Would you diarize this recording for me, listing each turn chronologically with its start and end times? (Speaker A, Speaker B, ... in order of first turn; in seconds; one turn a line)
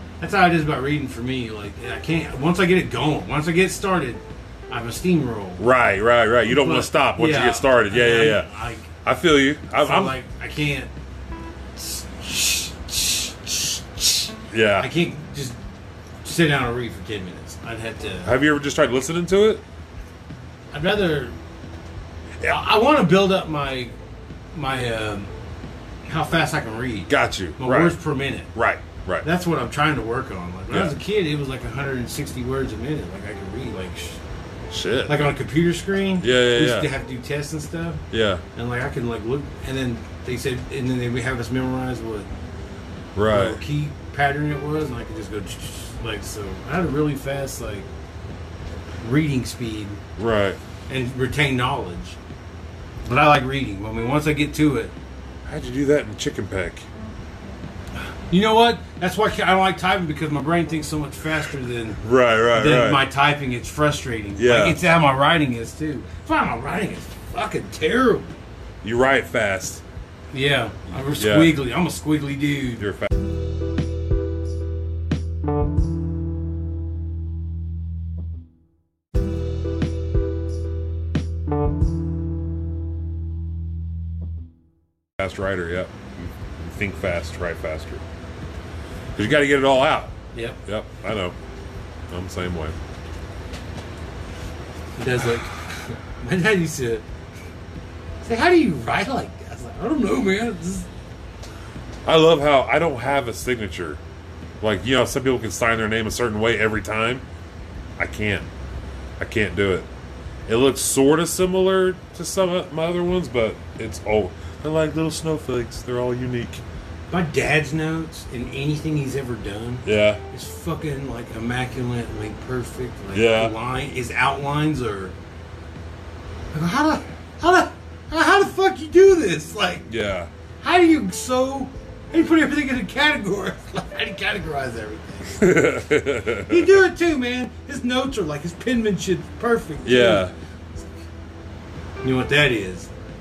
Speaker A: 0.2-5.6
Speaker B: 5.6-8.5
Speaker A: 6.5-8.9
Speaker B: 9.0-10.2
Speaker A: 9.8-10.9
Speaker A: 11.8-15.6
Speaker B: 14.5-14.9
Speaker A: 16.2-18.3
Speaker B: 18.2-19.6
Speaker A: 20.7-21.3
Speaker A: 22.5-23.9
Speaker A: 24.5-25.3
Speaker A: 26.1-28.5
Speaker B: 27.1-28.0
Speaker B: 28.5-29.3
Speaker A: 29.2-34.2
Speaker B: 30.7-31.0
Speaker B: 34.7-35.3
Speaker A: 35.1-38.0
Speaker B: 36.2-36.9
Speaker B: 38.1-38.4
Speaker A: 38.5-42.3
Speaker B: 43.1-43.6
Speaker A: 43.3-47.9
Speaker A: 49.0-50.0
Speaker B: 50.2-50.6
Speaker A: 50.9-52.2
Speaker A: 53.0-54.9
Speaker B: 55.5-56.9
Speaker A: 58.3-62.0
Speaker B: 62.0-63.0
Speaker A: 62.5-68.3
Speaker B: 64.4-64.8
Speaker B: 68.8-69.8
Speaker A: 70.3-72.8
Speaker B: 71.1-71.6
Speaker B: 72.8-73.1
Speaker B: 85.2-88.0
Speaker B: 89.2-90.1
Speaker A: 90.3-90.6
Speaker B: 90.7-91.4
Speaker B: 92.1-92.8
Speaker A: 95.0-97.0
Speaker A: 98.2-100.9
Speaker B: 102.0-104.0
Speaker B: 104.6-107.2
Speaker B: 108.0-108.5
Speaker B: 109.2-109.9
Speaker B: 110.5-116.6
Speaker A: 117.1-125.2
Speaker B: 119.8-120.2
Speaker B: 123.1-123.5
Speaker A: 126.5-129.9
Speaker B: 129.9-130.3
Speaker A: 130.6-135.7
Speaker B: 135.4-136.8
Speaker A: 136.5-140.3
Speaker B: 139.8-140.3
Speaker A: 142.0-142.9